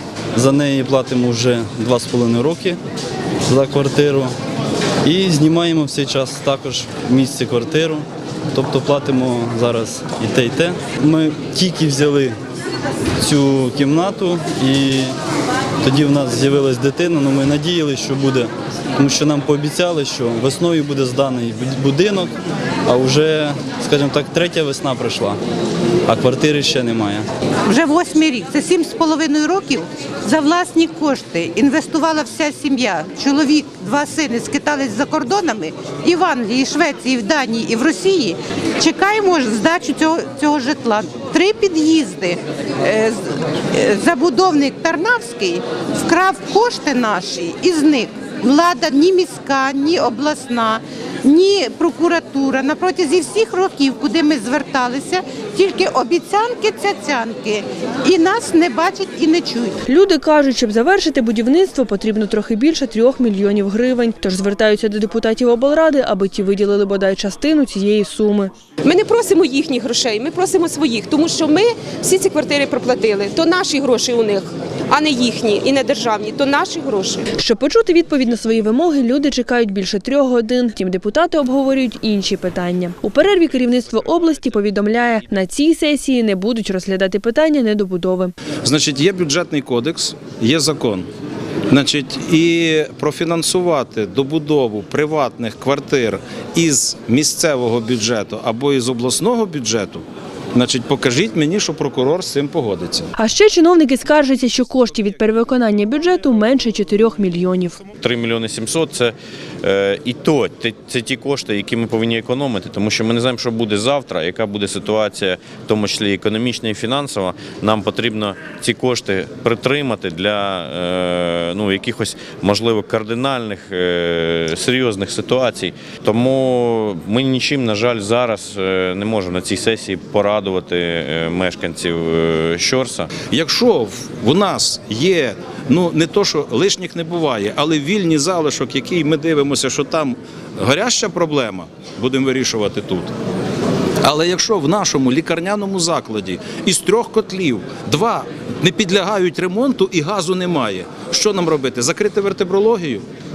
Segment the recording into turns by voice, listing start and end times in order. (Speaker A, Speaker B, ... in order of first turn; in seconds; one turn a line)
Speaker A: 0.3-2.8
Speaker A: 3.5-4.3
Speaker A: 5.0-12.3
Speaker A: 13.2-15.1
Speaker A: 15.8-22.3
Speaker A: 22.9-25.4
Speaker A: 26.1-27.3
Speaker B: 27.6-59.7
Speaker C: 59.9-68.5
Speaker D: 68.8-77.2
Speaker C: 77.3-88.3
Speaker E: 88.6-91.1
Speaker E: 91.7-100.0
Speaker E: 100.5-103.1
Speaker C: 103.2-107.8
Speaker F: 108.0-133.2
Speaker E: 133.2-143.1
Speaker E: 144.0-153.0